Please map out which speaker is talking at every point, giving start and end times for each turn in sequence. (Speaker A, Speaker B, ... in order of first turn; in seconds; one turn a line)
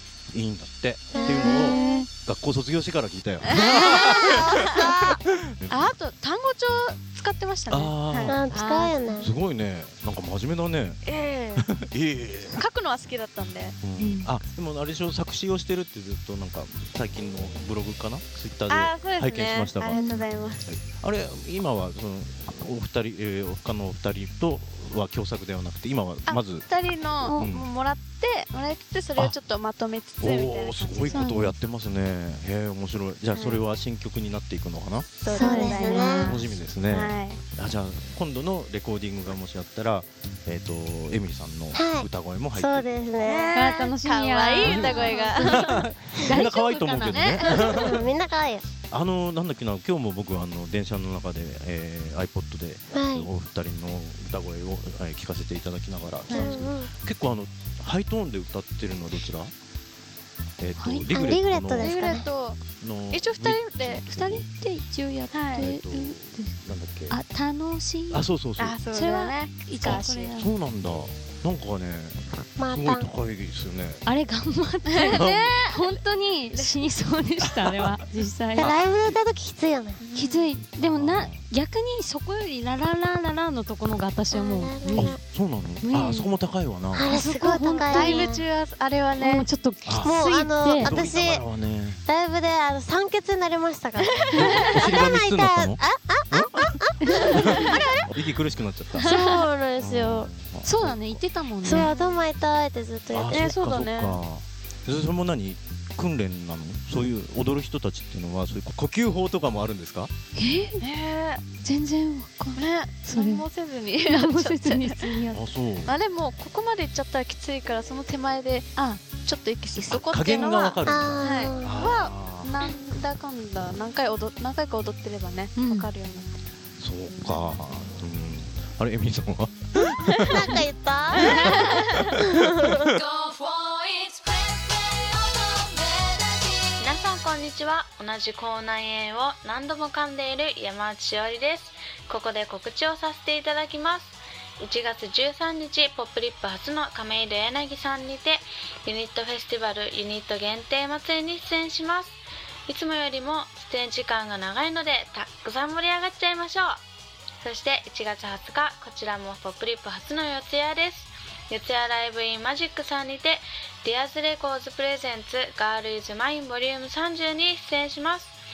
Speaker A: 0.3-5.9
Speaker B: 1.1-1.7
Speaker C: 1.2-2.1
Speaker D: 1.3-2.1
Speaker C: 3.4-8.3
Speaker B: 3.7-5.2
Speaker A: 7.7-8.4
Speaker B: 8.3-9.3
Speaker D: 8.5-9.2
Speaker A: 9.2-11.0
Speaker C: 11.0-11.7
Speaker A: 11.6-12.6
Speaker C: 12.5-13.8
Speaker A: 13.8-20.0
Speaker D: 14.0-14.3
Speaker C: 18.7-20.7
Speaker D: 19.9-20.2
Speaker A: 20.7-26.7
Speaker C: 26.2-31.3
Speaker D: 27.2-27.5
Speaker A: 27.4-27.7
Speaker A: 30.2-35.1
Speaker D: 31.1-31.5
Speaker C: 33.3-33.6
Speaker C: 35.2-37.4
Speaker B: 35.3-36.2
Speaker D: 35.4-36.4
Speaker A: 36.2-43.0
Speaker B: 41.7-43.5
Speaker C: 43.2-45.9
Speaker D: 43.5-47.7
Speaker A: 44.6-48.1
Speaker C: 47.1-47.9
Speaker B: 47.7-48.6
Speaker A: 48.9-59.5
Speaker B: 52.9-53.3
Speaker C: 56.3-56.6
Speaker B: 56.3-56.9
Speaker A: 60.6-62.0
Speaker D: 60.8-61.3
Speaker B: 61.1-62.3
Speaker C: 61.8-62.6
Speaker A: 62.8-64.5
Speaker C: 63.1-64.0
Speaker D: 63.8-66.5
Speaker C: 65.3-65.7
Speaker A: 65.6-67.2
Speaker D: 67.1-68.2
Speaker A: 68.1-68.8
Speaker C: 68.6-70.4
Speaker D: 68.9-70.5
Speaker A: 69.8-74.0
Speaker B: 72.6-73.1
Speaker D: 74.0-78.8
Speaker C: 74.8-76.8
Speaker A: 75.1-75.5
Speaker B: 78.6-80.0
Speaker A: 78.6-79.1
Speaker C: 80.0-80.5
Speaker D: 80.1-85.2
Speaker A: 80.8-81.4
Speaker B: 84.3-85.2
Speaker A: 84.9-87.1
Speaker D: 85.8-86.3
Speaker B: 86.9-88.4
Speaker D: 87.1-88.3
Speaker C: 87.7-89.5
Speaker D: 89.2-90.9
Speaker A: 89.8-90.1
Speaker B: 90.0-91.5
Speaker A: 90.8-92.0
Speaker B: 92.0-97.7
Speaker C: 94.0-94.8
Speaker A: 94.3-99.1
Speaker D: 97.2-97.7
Speaker D: 99.0-99.4
Speaker B: 99.0-100.3
Speaker A: 99.8-101.1
Speaker D: 100.6-101.9
Speaker B: 101.6-103.5
Speaker A: 103.1-110.1
Speaker C: 103.3-104.2
Speaker D: 110.3-110.8
Speaker C: 110.8-111.4
Speaker D: 111.6-113.4
Speaker C: 112.5-115.2
Speaker D: 114.0-115.4
Speaker A: 115.3-115.9
Speaker C: 115.8-126.4
Speaker A: 119.9-122.5
Speaker B: 120.8-121.7
Speaker D: 125.5-125.9
Speaker A: 126.8-130.6
Speaker B: 130.3-131.6
Speaker A: 131.1-131.8
Speaker C: 131.3-131.7
Speaker B: 132.3-132.7
Speaker D: 133.1-136.3
Speaker E: 136.8-152.2
Speaker E: 152.7-156.8
Speaker E: 157.4-168.3